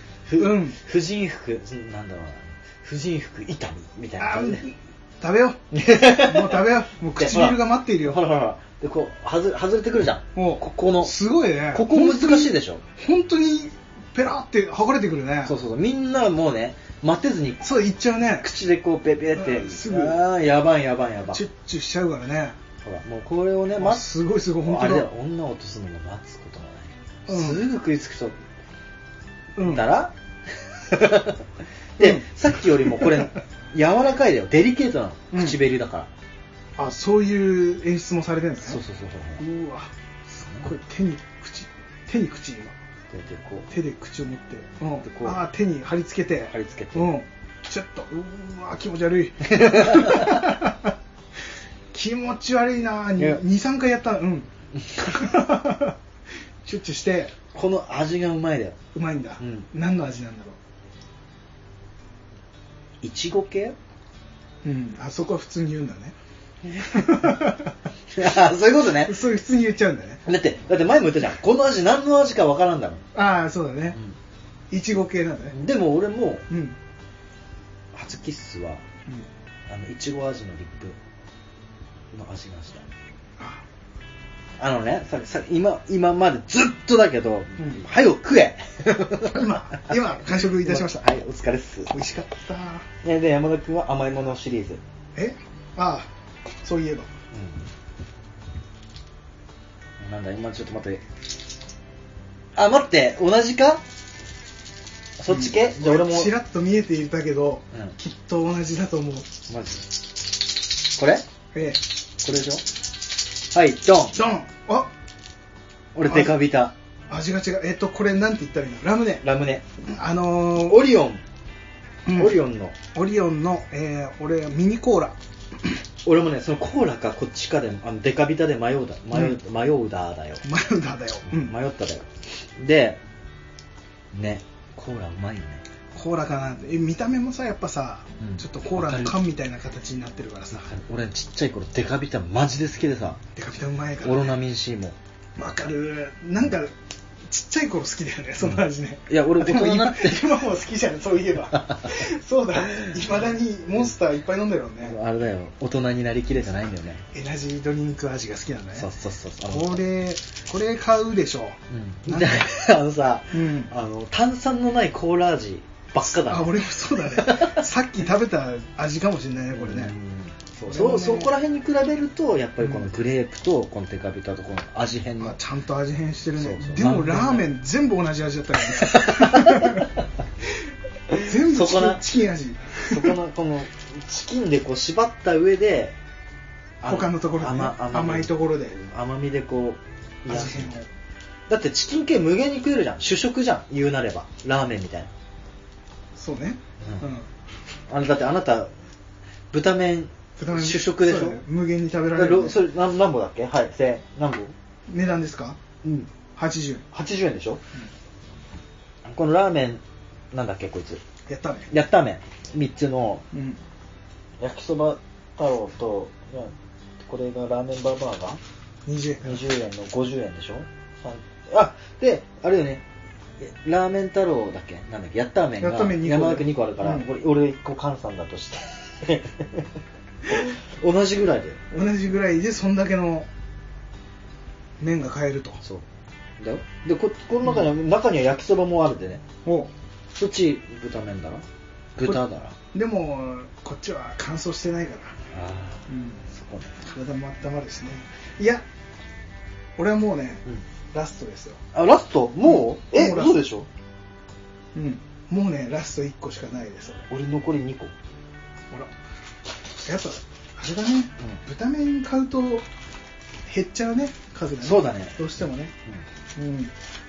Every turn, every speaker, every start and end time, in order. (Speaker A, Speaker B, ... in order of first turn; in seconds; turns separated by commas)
Speaker A: 0.2-4.6, Speaker B: 0.4-0.8, Speaker B: 4.2-8.2, Speaker A: 5.7-11.2, Speaker B: 10.3-15.5, Speaker A: 11.7-12.8, Speaker A: 15.4-17.6, Speaker B: 17.6-18.5, Speaker A: 18.4-21.4, Speaker B: 19.3-20.2, Speaker B: 21.3-22.6, Speaker A: 22.8-28.4, Speaker B: 23.8-25.1, Speaker B: 27.3-27.6, Speaker B: 29.6-29.9, Speaker A: 29.6-30.1, Speaker A: 30.7-36.1, Speaker B: 32.0-32.2, Speaker B: 32.8-33.3, Speaker B: 35.3-35.6, Speaker B: 36.8-38.8, Speaker A: 38.6-39.4, Speaker B: 39.4-42.8, Speaker A: 40.4-40.6, Speaker A: 43.1-43.7, Speaker B: 43.7-50.9, Speaker A: 45.0-45.4, Speaker A: 46.5-47.1, Speaker A: 49.5-50.5, Speaker B: 51.9-54.5, Speaker A: 54.9-55.2, Speaker B: 55.0-56.0, Speaker B: 56.6-57.3, Speaker A: 57.5-58.8, Speaker B: 58.9-60.6, Speaker A: 59.4-59.7, Speaker A: 63.0-63.8, Speaker B: 64.6-66.1, Speaker A: 66.6-67.4, Speaker B: 66.8-67.7, Speaker A: 68.1-69.2, Speaker B: 68.9-70.2, Speaker A: 70.2-73.0, Speaker B: 73.1-74.0, Speaker B: 74.7-75.5, Speaker A: 75.5-76.5, Speaker B: 76.5-76.8, Speaker A: 77.9-78.8, Speaker A: 79.7-81.0, Speaker A: 82.1-82.8, Speaker B: 83.4-83.6, Speaker A: 84.6-89.9, Speaker B: 87.6-87.8, Speaker B: 89.3-91.0, Speaker A: 90.5-91.9, Speaker B: 91.9-92.9, Speaker A: 93.0-94.8, Speaker B: 95.1-96.1, Speaker B: 96.6-97.1, Speaker A: 97.3-97.6, Speaker A: 100.0-101.0, Speaker A: 102.5-103.8, Speaker A: 105.2-106.3, Speaker B: 105.3-109.3, Speaker A: 109.5-110.0, Speaker A: 110.8-111.2, Speaker B: 111.5-111.8, Speaker A: 112.2-112.6, Speaker A: 113.5-114.2, Speaker B: 114.1-114.9, Speaker A: 115.9-116.7, Speaker B: 116.0-116.4, Speaker B: 117.1-119.2, Speaker A: 119.2-119.6, Speaker B: 119.8-120.8, Speaker A: 120.6-121.2, Speaker B: 122.0-122.4, Speaker A: 122.1-122.8, Speaker B: 122.9-125.7, Speaker A: 126.0-130.4, Speaker B: 130.4-131.5, Speaker A: 131.3-133.0, Speaker A: 134.1-135.6, Speaker B: 135.9-140.7, Speaker A: 138.2-139.2, Speaker A: 140.5-143.2, Speaker B: 143.3-144.3, Speaker A: 144.0-144.9, Speaker B: 145.4-146.7, Speaker B: 147.3-155.0, Speaker A: 148.4-150.3, Speaker A: 151.5-152.0, Speaker A: 154.8-157.0, Speaker B: 157.1-158.9, Speaker A: 158.8-159.8, Speaker B: 159.4-162.5, Speaker A: 161.7-167.6, Speaker B: 163.3-163.7, Speaker B: 166.0-169.9, Speaker A: 169.5-175.4, Speaker B: 170.7-171.3, Speaker B: 172.6-172.9, Speaker B: 175.2-179.9, Speaker A: 176.4-177.5, Speaker A: 178.7-180.0, Speaker A: 181.1-182.0, Speaker B: 181.2-183.2, Speaker A: 182.8-185.9, Speaker A: 186.8-190.7, Speaker B: 186.8-188.8, Speaker B: 190.3-190.9, Speaker A: 191.5-195.1, Speaker B: 196.2-197.3, Speaker A: 197.9-198.7, Speaker A: 199.5-201.4, Speaker B: 200.4-202.6, Speaker A: 202.1-204.5, Speaker B: 204.9-205.6, Speaker A: 205.8-206.1, Speaker B: 206.3-206.8, Speaker A: 206.9-207.6, Speaker A: 209.0-211.0, Speaker B: 211.3-211.7, Speaker A: 211.7-213.2, Speaker B: 213.3-213.6, Speaker A: 214.4-218.4, Speaker B: 218.8-219.4, Speaker A: 219.2-222.8, Speaker A: 223.4-229.7, Speaker B: 225.6-227.1, Speaker A: 230.3-231.6, Speaker B: 231.7-233.3, Speaker B: 234.8-235.6, Speaker A: 236.4-239.2, Speaker B: 239.4-239.7, Speaker A: 240.1-241.4, Speaker A: 241.9-242.5, Speaker B: 242.7-245.1, Speaker A: 245.3-246.7, Speaker B: 245.9-246.2, Speaker B: 246.8-248.6, Speaker B: 249.8-251.6, Speaker A: 251.7-253.7, Speaker B: 252.4-253.4, Speaker B: 254.7-257.1, Speaker A: 257.1-257.9, Speaker B: 259.8-262.7, Speaker B: 263.5-265.7, Speaker A: 264.6-265.2, Speaker B: 266.4-266.7